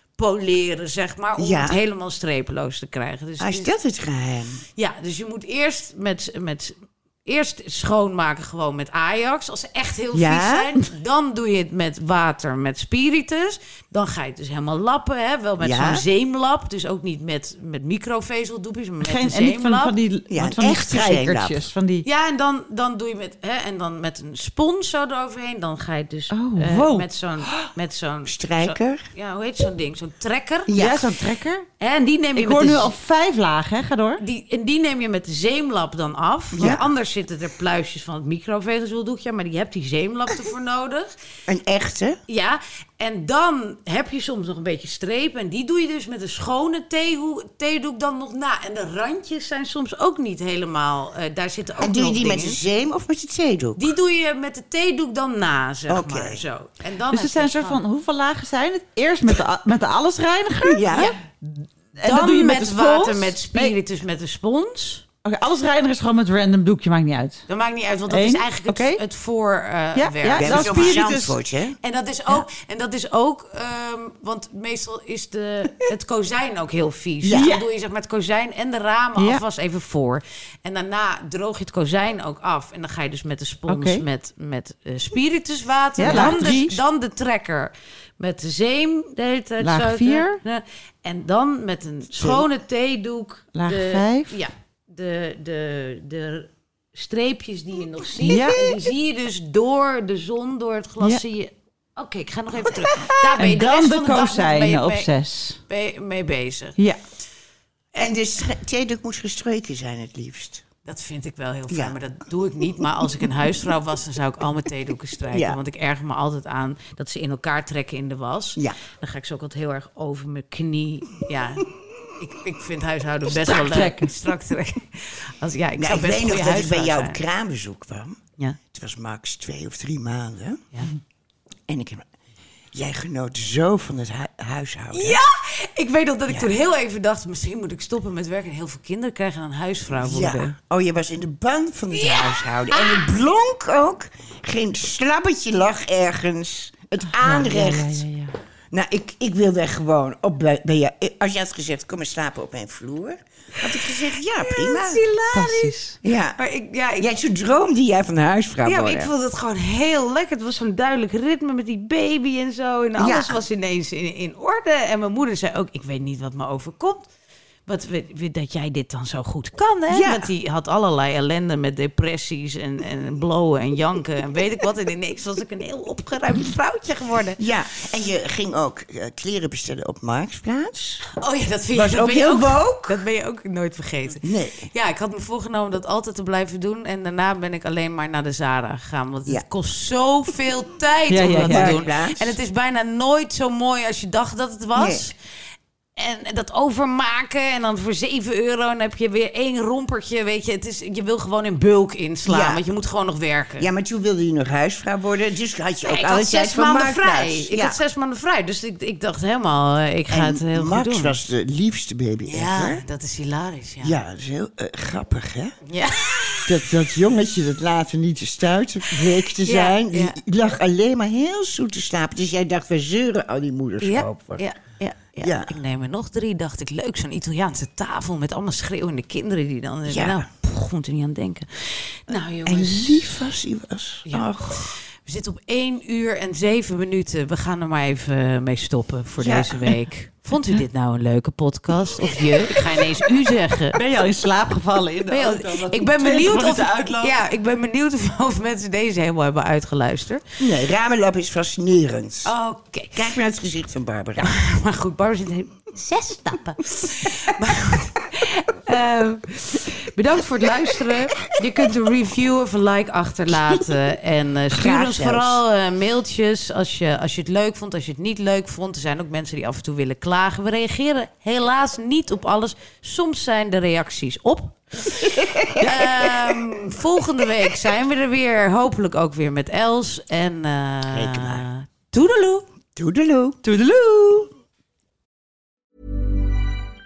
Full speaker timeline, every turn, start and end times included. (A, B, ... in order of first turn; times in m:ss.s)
0:00.2-0:03.7 A
0:01.4-0:01.8 B
0:03.4-0:04.6 B
0:04.8-0:19.9 A
0:10.1-0:10.7 B
0:15.6-0:16.0 B
0:19.0-0:22.1 C
0:20.3-0:21.7 B
0:22.0-0:30.7 A
0:26.3-0:27.6 C
0:28.3-0:29.1 B
0:30.7-0:31.1 B
0:30.8-0:31.7 C
0:31.8-0:32.9 A
0:32.4-0:34.2 C
0:34.2-0:41.1 A
0:36.5-0:36.9 B
0:41.5-0:42.2 B
0:42.3-0:52.6 A
0:51.8-0:53.9 B
0:53.8-0:57.8 A
0:55.9-0:56.4 B
0:57.1-1:03.8 C
1:00.6-1:01.1 B
1:02.0-1:05.0 A
1:05.2-1:07.4 C
1:07.5-1:11.1 A
1:08.1-1:09.0 C
1:10.0-1:11.4 C
1:10.4-1:11.8 B
1:11.8-1:45.1 A
1:17.2-1:17.5 B
1:17.3-1:17.6 C
1:19.2-1:19.4 C
1:23.7-1:24.0 C
1:26.0-1:26.8 C
1:26.0-1:26.6 B
1:29.6-1:30.4 C
1:32.1-1:32.5 B
1:33.6-1:34.3 C
1:38.2-1:38.6 C
1:38.2-1:38.7 B
1:43.4-1:45.6 C
1:45.7-1:46.8 A
1:48.0-1:50.6 B
1:50.8-2:07.2 A
1:51.7-1:52.0 B
1:52.8-1:53.3 B
1:55.3-1:55.6 B
2:03.5-2:04.1 C
2:03.5-2:03.9 B
2:05.8-2:10.7 B
2:11.7-2:12.1 B
2:12.7-2:15.2 B
2:14.9-2:20.5 A
2:19.9-2:28.1 B
2:21.9-2:23.1 A
2:27.2-2:28.3 C
2:28.7-2:35.0 B
2:33.9-2:35.8 A
2:35.3-2:36.0 C
2:36.0-2:36.4 B
2:36.4-2:37.1 A
2:37.0-2:39.1 B
2:38.6-2:47.1 A
2:43.0-2:43.4 B
2:47.7-2:57.4 A
2:49.9-2:50.3 B
2:57.4-3:01.0 B
3:01.2-3:15.2 A
3:01.7-3:03.0 B
3:04.2-3:04.7 B
3:11.1-3:11.8 C
3:11.4-3:12.4 B
3:14.8-3:15.1 B
3:16.0-3:23.7 A
3:22.2-3:22.6 B
3:23.6-3:27.8 B
3:25.8-3:31.2 A
3:30.1-3:32.8 B
3:32.3-3:34.0 A
3:33.8-3:35.6 B
3:35.7-3:36.6 A
3:36.5-3:44.5 B
3:39.4-3:40.2 A
3:43.8-3:53.2 A
3:45.2-3:45.5 B
3:49.9-3:50.2 B
3:52.4-3:54.7 B
3:54.1-4:03.8 A
3:59.2-3:59.8 B
4:02.1-4:02.3 B
4:03.8-4:07.2 C
4:05.1-4:10.2 A
4:10.4-4:12.3 B
4:12.2-4:13.0 A
4:12.9-4:14.4 B
4:14.2-4:42.5 A
4:24.5-4:25.4 B
4:35.1-4:36.2 B
4:40.9-4:41.4 B
4:42.8-4:43.4 B
4:43.4-4:44.3 C